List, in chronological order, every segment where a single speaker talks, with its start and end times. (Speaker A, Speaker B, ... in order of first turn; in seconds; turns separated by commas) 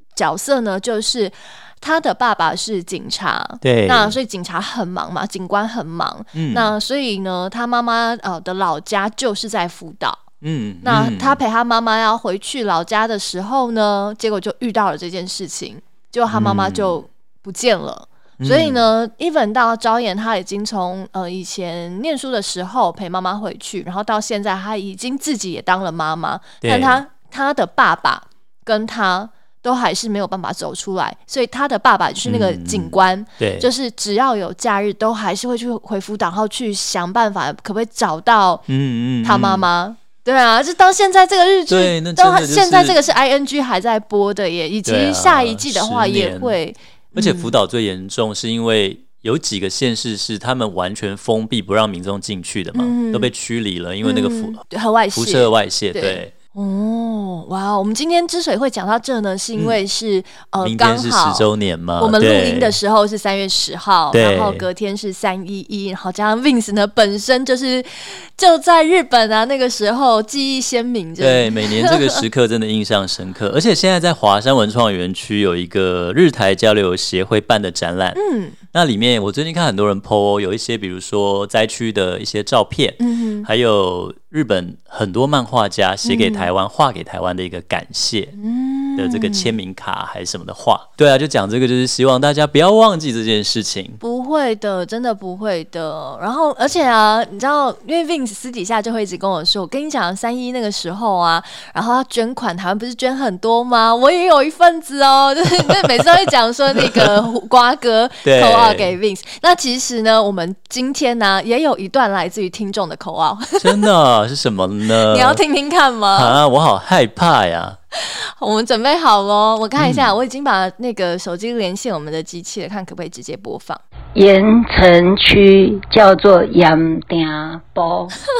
Speaker A: 0.1-10.2, Speaker B: 3.6-4.2, Speaker B: 6.3-6.7, Speaker B: 10.4-11.4, Speaker A: 10.8-38.6, Speaker B: 16.3-17.0, Speaker B: 18.4-18.8, Speaker B: 26.6-27.0, Speaker B: 32.2-33.7, Speaker B: 38.7-39.7, Speaker A: 39.2-47.5, Speaker B: 41.7-43.0, Speaker B: 44.9-46.5, Speaker B: 47.1-54.6, Speaker A: 52.7-53.3, Speaker A: 54.0-61.5, Speaker B: 55.1-56.3, Speaker B: 60.6-62.8, Speaker A: 62.0-72.2, Speaker B: 64.1-64.7, Speaker B: 71.2-78.2, Speaker A: 78.1-78.6, Speaker B: 78.7-88.3, Speaker A: 83.0-83.5, Speaker A: 86.0-86.5, Speaker A: 88.3-89.5, Speaker B: 89.0-94.0, Speaker A: 94.0-113.9, Speaker B: 108.2-108.9, Speaker B: 113.6-115.4, Speaker A: 115.0-116.4, Speaker B: 116.1-117.8, Speaker A: 117.9-123.8, Speaker B: 119.8-120.1, Speaker C: 124.1-128.2